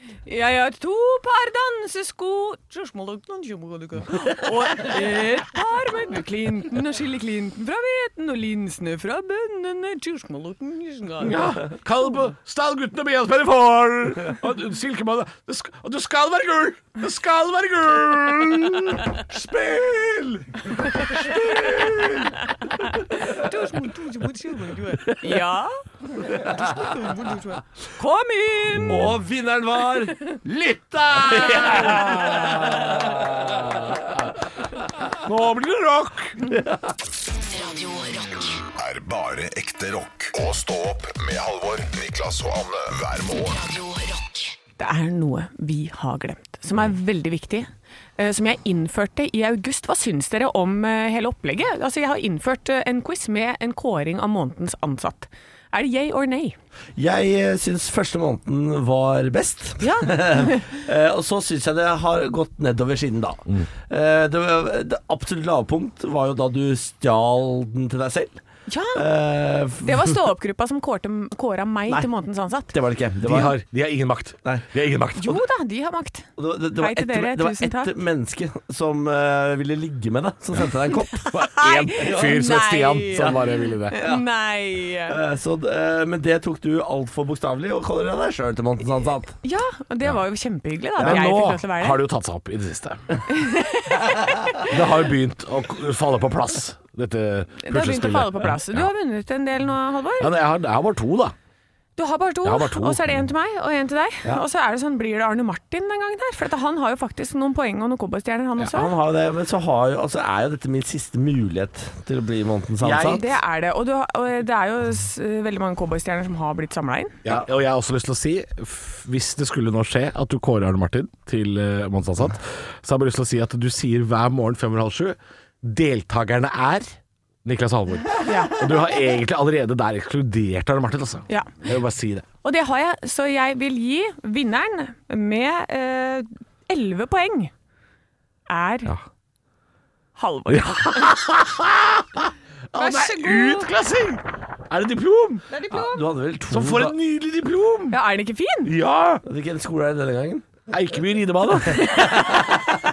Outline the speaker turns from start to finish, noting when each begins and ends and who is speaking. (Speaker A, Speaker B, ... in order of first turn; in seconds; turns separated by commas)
Speaker A: 0.3-11.6, Speaker B: 11.2-22.2, Speaker C: 21.1-22.4, Speaker A: 22.8-29.1, Speaker C: 26.2-26.9, Speaker C: 28.8-34.0, Speaker B: 31.3-34.0, Speaker B: 35.1-36.4, Speaker C: 36.5-36.8, Speaker D: 37.4-38.6, Speaker E: 38.8-43.6, Speaker D: 43.4-44.5, Speaker A: 44.8-56.6, Speaker C: 57.0-68.4, Speaker A: 59.8-60.7, Speaker A: 68.7-69.1, Speaker C: 69.0-70.2, Speaker A: 69.8-72.7, Speaker C: 72.7-73.5, Speaker B: 73.2-75.4, Speaker A: 75.2-78.0, Speaker C: 76.4-82.5, Speaker A: 81.1-85.2, Speaker B: 81.4-84.0, Speaker C: 83.1-83.4, Speaker C: 84.0-84.2, Speaker C: 85.1-89.3, Speaker A: 89.4-92.0, Speaker B: 91.0-93.3, Speaker A: 93.3-94.7, Speaker B: 94.7-98.9, Speaker A: 97.6-100.3, Speaker B: 100.2-101.3, Speaker A: 102.0-108.9, Speaker B: 102.4-103.2, Speaker C: 108.7-113.3, Speaker B: 112.8-113.2, Speaker A: 112.9-117.2, Speaker B: 117.2-132.3, Speaker A: 128.2-128.6, Speaker A: 131.3-131.7, Speaker A: 132.4-137.5, Speaker A: 138.5-138.9, Speaker A: 140.2-141.2, Speaker B: 140.5-145.5, Speaker A: 142.8-143.7, Speaker A: 145.5-146.0, Speaker C: 145.7-147.0, Speaker B: 146.5-148.0, Speaker A: 147.9-148.7, Speaker B: 148.7-149.2, Speaker C: 149.2-150.5, Speaker B: 150.7-152.4, Speaker A: 151.7-152.3